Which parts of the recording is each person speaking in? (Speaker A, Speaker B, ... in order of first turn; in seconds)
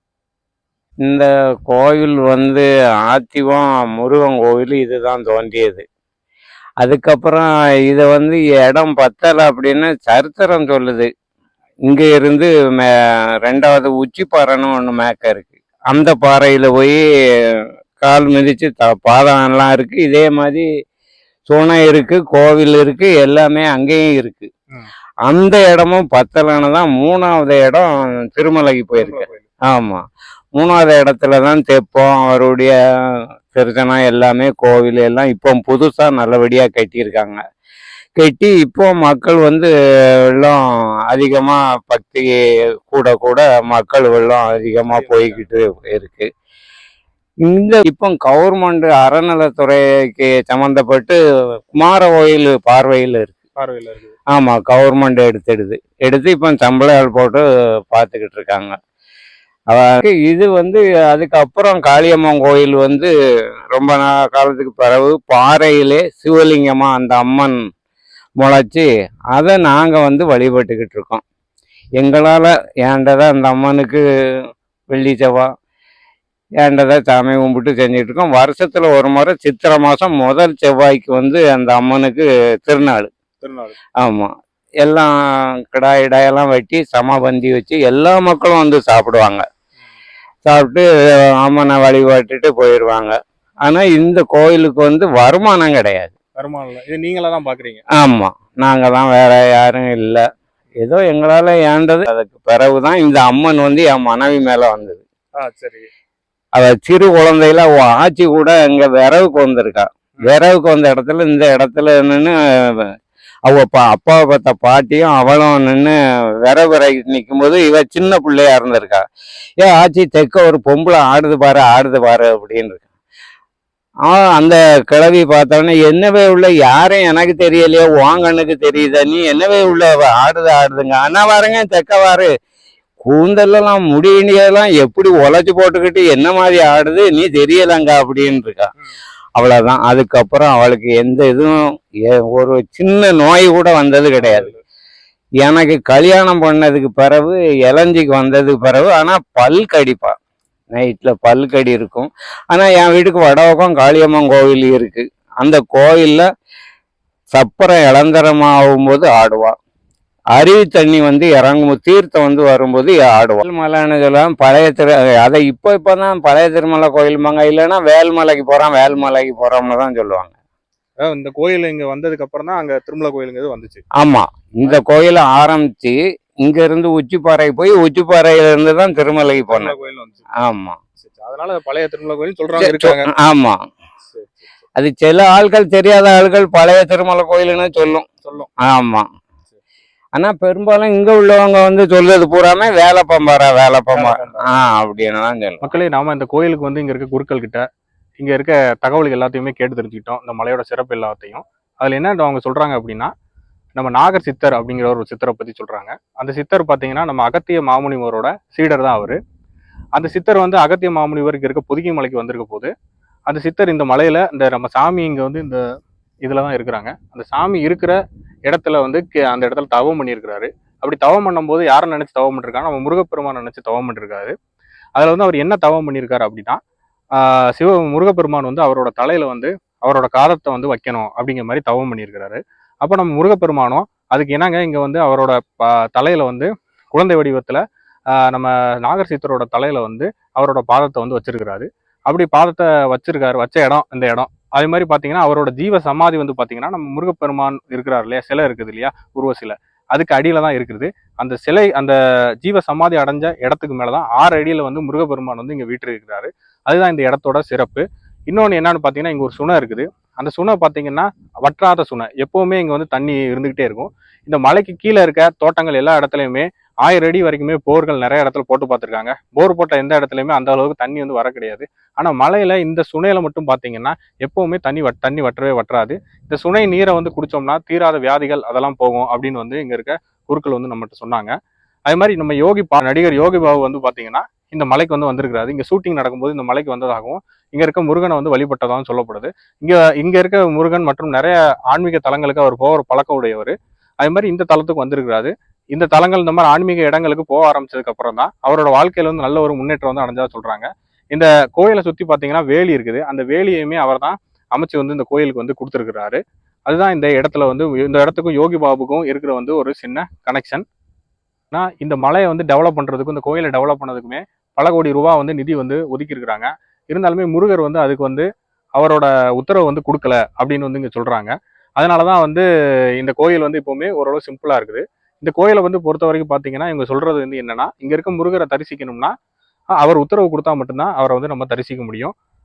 Speaker A: 1.1-5.8, 6.8-11.1, 11.9-12.9, 13.4-17.0, 17.5-20.7, 21.5-24.5, 25.3-30.0, 30.6-32.7, 33.5-37.4, 38.2-39.7, 40.3-40.6, 41.1-42.3, 42.9-46.3, 47.5-51.2, 51.8-53.4, 54.3-58.8, 59.7-63.1, 63.7-67.6, 68.4-71.2, 72.0-74.0, 74.9-75.5, 76.6-83.1, 84.0-84.3, 84.8-85.1, 85.7-89.5, 90.5-90.9, 91.4-93.1, 93.7-96.1, 98.0-100.2, 100.8-105.0, 106.6-112.9, 113.5-115.9, 116.5-119.0, 119.6-122.8, 124.1-132.3, 133.1-138.7, 139.4-141.6, 142.1-144.5, 145.4-150.1, 150.8-156.3, 157.3-159.5, 160.3-170.3, 174.0-179.7, 180.4-180.8, 182.6-183.6, 184.8-188.1, 188.7-189.1, 190.2-195.7
Speaker B: 29.0-29.5, 44.9-45.4, 53.6-54.1, 83.4-83.8, 96.4-97.8, 105.4-105.9, 144.2-144.6, 171.0-173.8, 179.5-180.3, 181.0-183.1, 184.1-184.6, 193.9-194.5, 195.6-197.6, 198.2-203.1, 203.8-209.2, 210.0-212.7, 213.3-215.6, 216.2-218.0, 218.5-224.3, 225.0-226.6, 227.2-237.6, 238.2-281.3, 281.9-310.6, 311.5-322.5, 323.0-329.1, 329.8-332.1